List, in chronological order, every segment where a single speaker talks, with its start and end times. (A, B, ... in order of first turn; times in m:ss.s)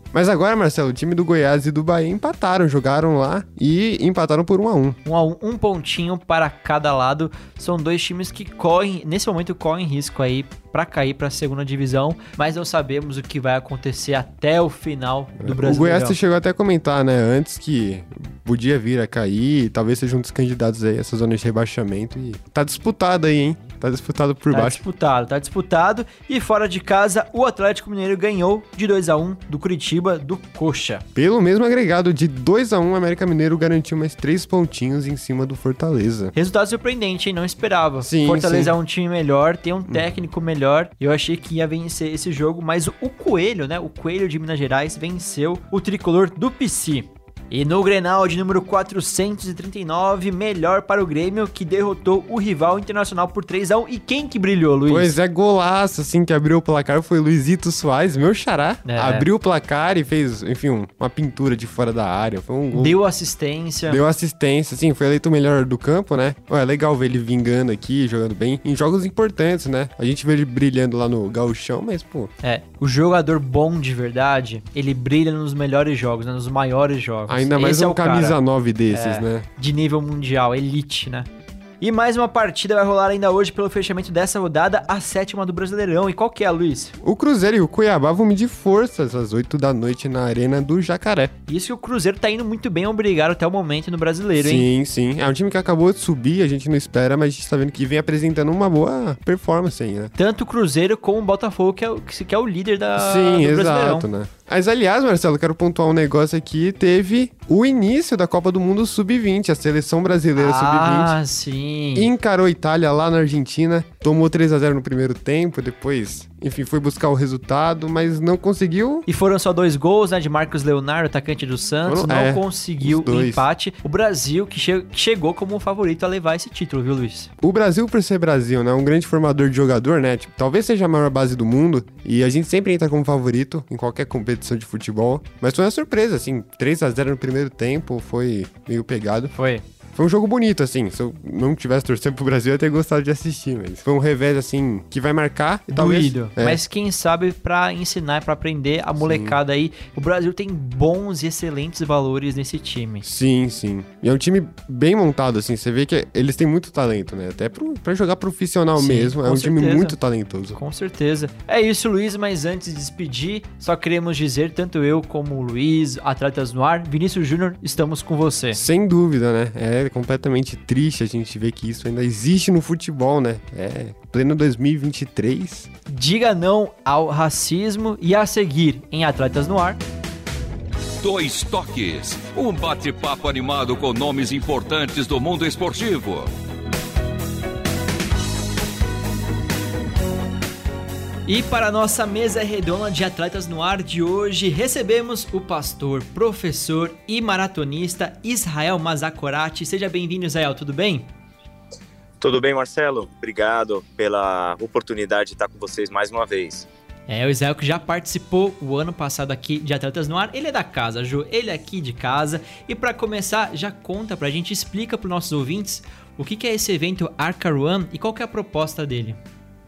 0:00.1-0:05.0 A
0:05.0-0:16.2 B
0:15.4-0:24.8 A
0:24.5-0:31.0 B
0:31.2-0:36.3 A
0:36.3-0:55.1 B
0:38.0-0:38.8 A
0:54.9-1:03.0 A
0:58.8-0:59.2 B
1:02.7-1:04.0 B
1:03.9-1:12.3 A
1:12.4-1:18.4 B
1:17.3-1:19.4 A
1:18.9-1:21.3 B
1:21.8-1:26.9 B
1:27.0-1:31.3 A
1:31.5-1:34.7 B
1:34.4-1:40.1 A
1:40.2-1:44.0 B
1:43.0-1:51.2 A
1:50.4-1:52.1 B
1:51.9-1:59.0 A
1:59.0-2:07.3 B
2:01.8-2:03.4 A
2:07.4-2:19.3 A
2:19.4-2:19.6 B
2:19.9-2:26.6 A
2:25.7-2:33.0 B
2:29.0-2:29.4 A
2:33.0-2:40.6 A
2:38.8-2:40.0 B
2:40.5-2:48.6 B
2:48.5-2:55.7 A
2:55.9-2:59.8 B
3:01.0-3:06.3 C
3:11.3-3:21.1 B
3:22.2-3:26.7 D
3:27.1-3:39.2 B